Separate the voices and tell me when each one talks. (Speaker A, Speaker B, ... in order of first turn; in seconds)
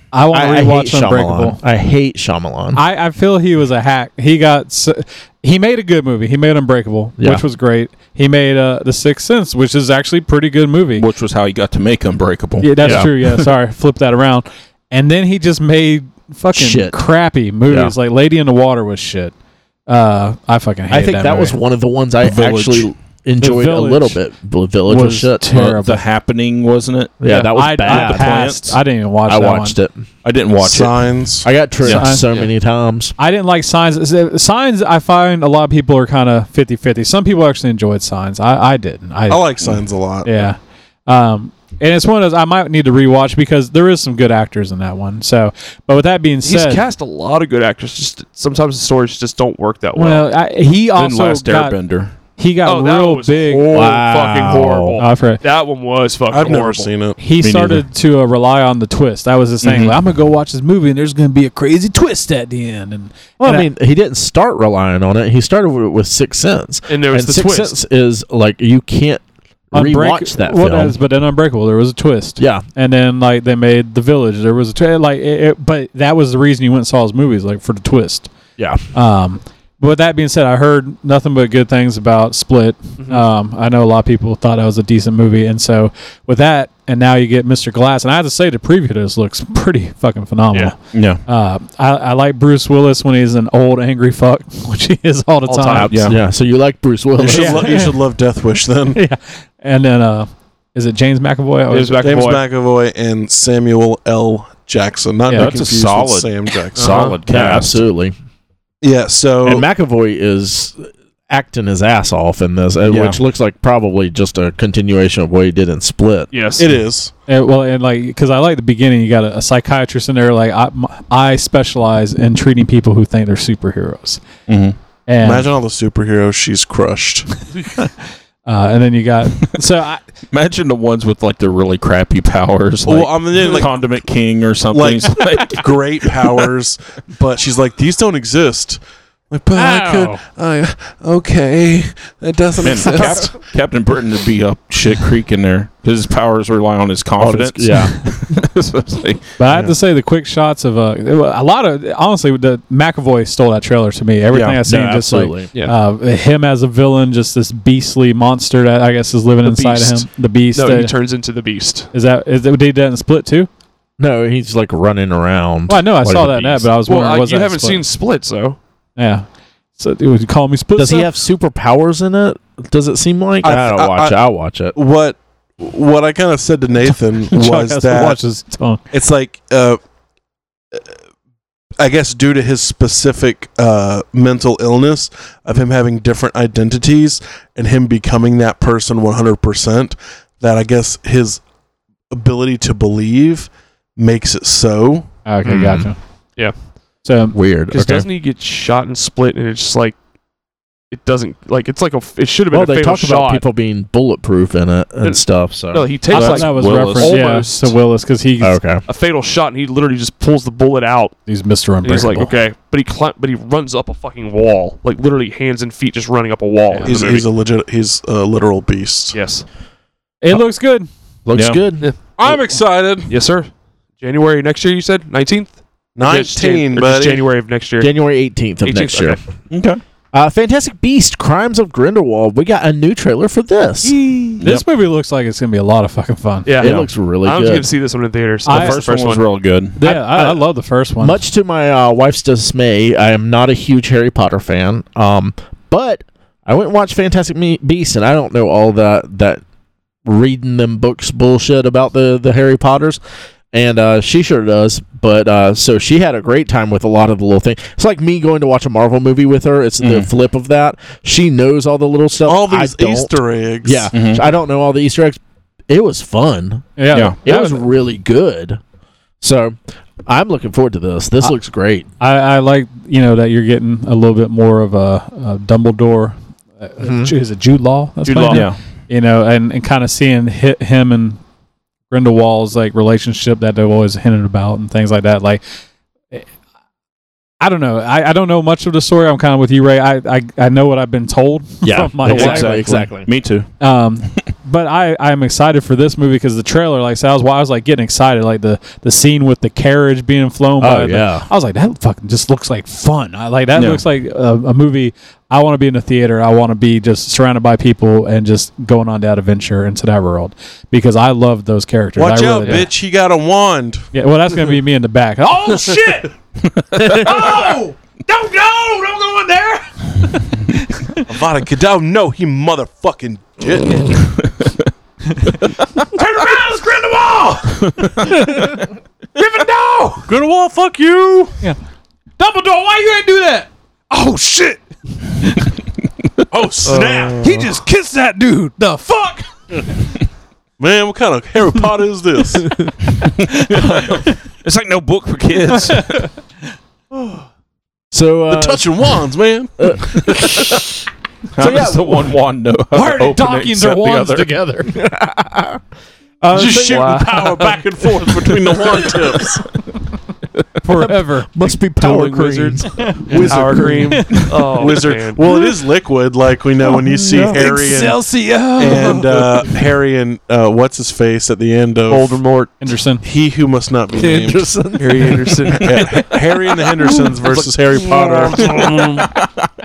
Speaker A: 0.1-1.6, 2.7-11.1, 12.6-19.3, 19.9-21.6, 23.4-24.2, 24.9-26.0, 27.2-29.8, 31.8-32.4, 33.2-39.5, 40.2-46.8, 50.0-51.8, 52.4-53.8, 55.0-55.4, 57.2-63.7, 69.7-78.3, 78.9-95.9, 97.3-98.0, 98.9-102.1, 105.3-105.5, 117.3-124.2, 125.1-125.5, 128.4-130.0, 149.4-160.9, 161.9-163.5, 165.7-167.8, 169.0-171.1, 177.3-178.8, 195.2-196.0, 197.0-197.3, 206.1-208.6, 211.3-212.3, 220.2-220.9, 233.8-236.5, 238.4-238.8, 239.8-241.2, 266.8-267.7, 272.0-281.2, 281.9-285.4, 287.4-292.5, 293.6-312.7, 313.9-316.1, 316.8-321.0, 325.3-330.1, 332.2-335.5, 337.2-339.9, 343.2-343.9, 345.5-346.1, 352.7-354.7, 356.4-357.4, 358.1-358.3, 360.6-361.3, 362.8-364.4, 366.9-369.1, 372.6-373.0
Speaker B: 0.3-2.8, 7.2-7.4, 12.8-13.1, 16.5-17.0, 17.7-17.9, 20.9-25.8, 27.2-28.4, 29.3-30.1, 31.4-33.1, 53.7-55.0, 63.4-70.9, 72.4-72.6, 95.7-97.8, 106.8-108.1, 109.4-116.3, 147.2-147.9, 154.7-155.5, 164.0-166.7, 170.8-174.7, 195.5-195.8, 197.3-198.1, 202.5-205.9, 208.4-208.8, 221.2-221.9, 227.8-229.2, 230.1-233.9, 236.6-237.7, 239.8-240.4, 241.0-249.4, 250.0-253.0, 253.5-266.7, 267.2-268.6, 269.2-271.9, 276.8-277.1, 291.6-293.1, 300.6-301.3, 316.8-317.1, 347.9-348.7, 349.6-350.5, 351.4-352.1, 354.7-355.6, 360.7-364.1, 367.0-367.4, 373.9-375.4, 377.9-378.8
Speaker C: 11.0-13.4, 22.3-22.9, 25.8-27.1, 27.8-28.8, 30.2-31.1, 31.8-32.1, 50.9-52.1, 57.4-57.8, 59.6-60.0, 90.9-91.2, 95.9-96.2, 105.3-107.8, 112.9-113.2, 124.5-124.8, 130.3-136.4, 142.6-149.2, 154.3-154.6, 206.1-207.2, 221.3-221.6, 229.5-229.8, 236.6-236.9, 238.5-239.8, 259.8-260.1, 263.9-264.2, 278.0-278.6, 292.0-293.5, 303.5-303.8, 324.2-324.5, 327.6-328.1, 342.9-346.0, 351.3-354.3
Speaker D: 30.6-31.5, 39.3-40.5, 56.3-57.2, 97.2-99.0, 102.0-107.0, 108.8-109.7, 116.6-117.1, 125.2-127.3, 132.8-133.8, 134.7-143.3, 149.4-149.8, 173.4-174.2, 174.7-178.2, 178.9-179.8, 181.8-191.4, 192.1-195.1, 216.8-219.2, 222.2-223.1, 226.0-227.2, 262.2-263.9, 311.9-313.8, 321.1-324.0, 330.1-331.4, 336.3-337.6, 340.6-342.5, 348.3-350.4, 356.3-359.4, 364.5-372.2, 373.0-374.6, 375.5-378.7
Speaker E: 46.4-50.3, 52.6-56.9, 66.9-67.8, 83.0-83.2, 95.5-95.9, 101.7-102.4, 116.3-116.7, 159.4-161.9, 166.8-168.6, 197.7-199.9, 200.9-203.4, 205.0-207.7, 208.9-211.1, 211.8-217.3, 219.1-219.4, 223.1-227.9, 228.6-229.2, 236.4-239.3, 336.6-337.2, 356.3-357.6, 361.8-365.2, 371.9-372.5, 374.8-376.2, 377.2-377.5, 378.4-379.0